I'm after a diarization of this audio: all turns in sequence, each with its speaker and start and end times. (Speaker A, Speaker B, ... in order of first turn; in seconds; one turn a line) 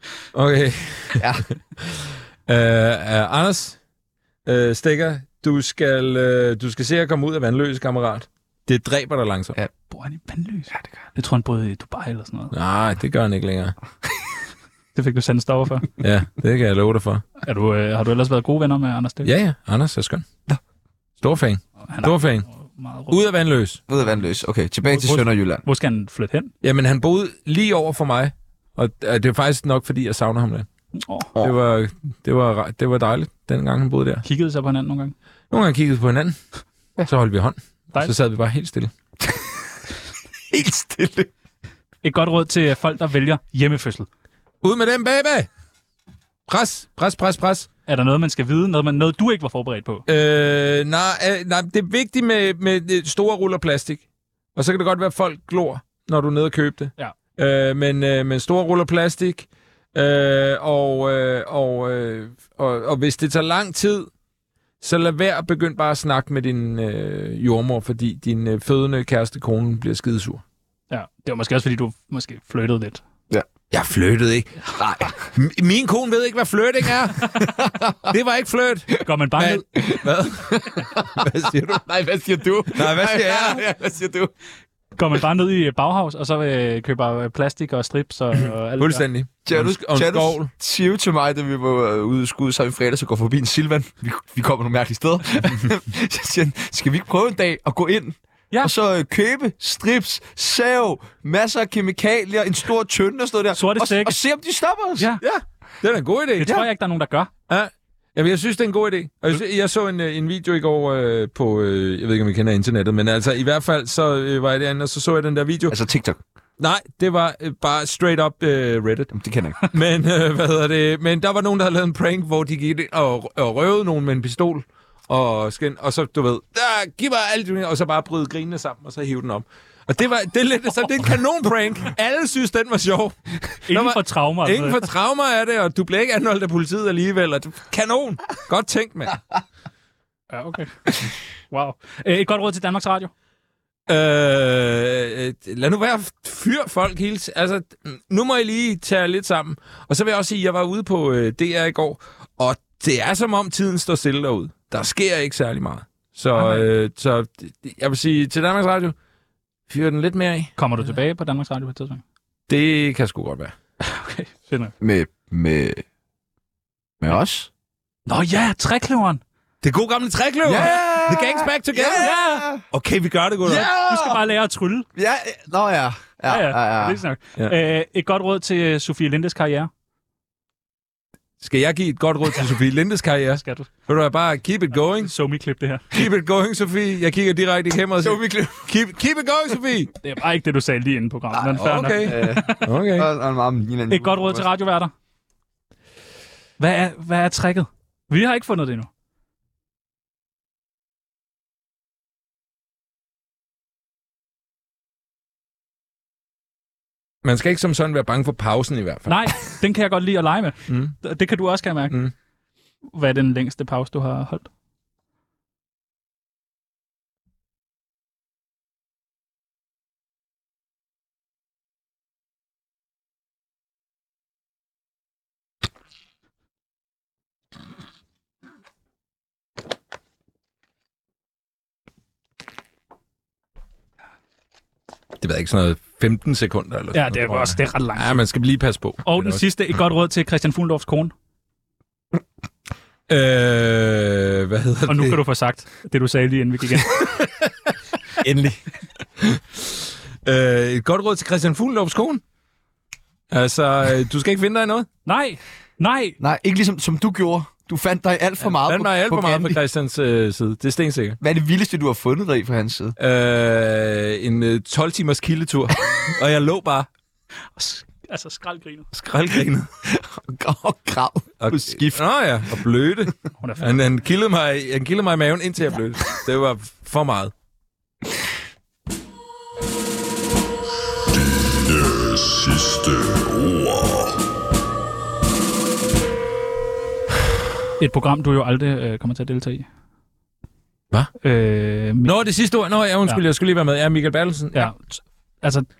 Speaker A: 0.3-3.8
Speaker B: 1.1-1.4
Speaker A: 4.4-9.6
Speaker C: 9.9-12.5
Speaker B: 10.7-11.0
Speaker A: 12.5-13.8
Speaker C: 14.9-15.9
Speaker A: 16.0-17.2
Speaker C: 17.4-19.3
Speaker A: 19.2-20.2
Speaker A: 21.2-22.5
Speaker C: 21.9-23.2
Speaker A: 23.1-23.8
Speaker B: 23.9-25.6
Speaker C: 24.9-26.5
Speaker A: 26.6-30.7
Speaker C: 31.0-31.3
Speaker A: 31.4-34.2
Speaker C: 34.2-35.1
Speaker A: 35.5-36.4
Speaker A: 37.0-38.9
Speaker B: 40.5-41.3
Speaker C: 42.0-44.1
Speaker A: 44.6-45.5
Speaker A: 46.5-47.7
Speaker C: 47.9-50.0
Speaker A: 50.1-54.0
Speaker A: 54.5-64.1
Speaker A: 64.8-70.4
Speaker C: 70.9-73.0
Speaker A: 73.7-74.5
Speaker B: 74.7-75.3
Speaker A: 75.1-77.5
Speaker B: 77.4-78.1
Speaker A: 78.0-81.8
Speaker C: 79.0-79.6
Speaker B: 79.7-84.3
Speaker A: 82.7-83.7
Speaker C: 85.0-89.0
Speaker A: 88.8-90.5
Speaker B: 89.4-105.1
Speaker C: 103.5-104.2
Speaker A: 105.2-106.6
Speaker C: 106.4-107.3
Speaker A: 107.5-115.8
Speaker B: 115.7-116.2
Speaker A: 116.6-139.2
Speaker B: 119.1-119.7
Speaker C: 133.7-134.9
Speaker C: 140.3-143.1
Speaker A: 143.9-158.9
Speaker C: 156.3-156.7
Speaker A: 159.7-160.5
Speaker C: 160.6-162.0
Speaker A: 162.5-163.6
Speaker C: 163.8-164.7
Speaker B: 164.8-165.8
Speaker B: 167.0-167.5
Speaker C: 168.1-169.2
Speaker A: 169.6-173.7
Speaker B: 170.4-172.6
Speaker C: 172.0-172.4
Speaker B: 173.4-174.2
Speaker C: 173.8-174.9
Speaker B: 174.9-177.0
Speaker C: 176.3-179.7
Speaker A: 181.4-185.1
Speaker C: 183.4-183.7
Speaker C: 185.0-185.9
Speaker A: 185.9-189.9
Speaker B: 188.0-188.7
Speaker C: 190.0-192.7
Speaker B: 191.4-194.5
Speaker A: 191.5-193.1
Speaker C: 193.9-194.9
Speaker C: 196.6-198.9
Speaker A: 207.2-209.6
Speaker C: 209.1-212.0
Speaker A: 210.7-210.9
Speaker C: 212.9-214.5
Speaker A: 235.2-239.4
Speaker C: 236.9-238.2
Speaker C: 239.0-241.1
Speaker A: 243.1-245.2
Speaker C: 244.9-247.1
Speaker A: 247.0-247.5
Speaker B: 248.2-248.6
Speaker A: 250.2-252.2
Speaker A: 253.3-254.9
Speaker C: 255.0-256.2
Speaker B: 256.2-259.6
Speaker A: 258.4-261.2
Speaker B: 261.2-263.0
Speaker A: 263.0-266.9
Speaker C: 267.6-268.9
Speaker A: 268.9-269.7
Speaker B: 269.8-272.0
Speaker A: 271.4-277.3
Speaker C: 273.4-273.8
Speaker C: 287.8-289.7
Speaker C: 291.2-292.1
Speaker A: 292.0-294.7
Speaker C: 294.5-295.7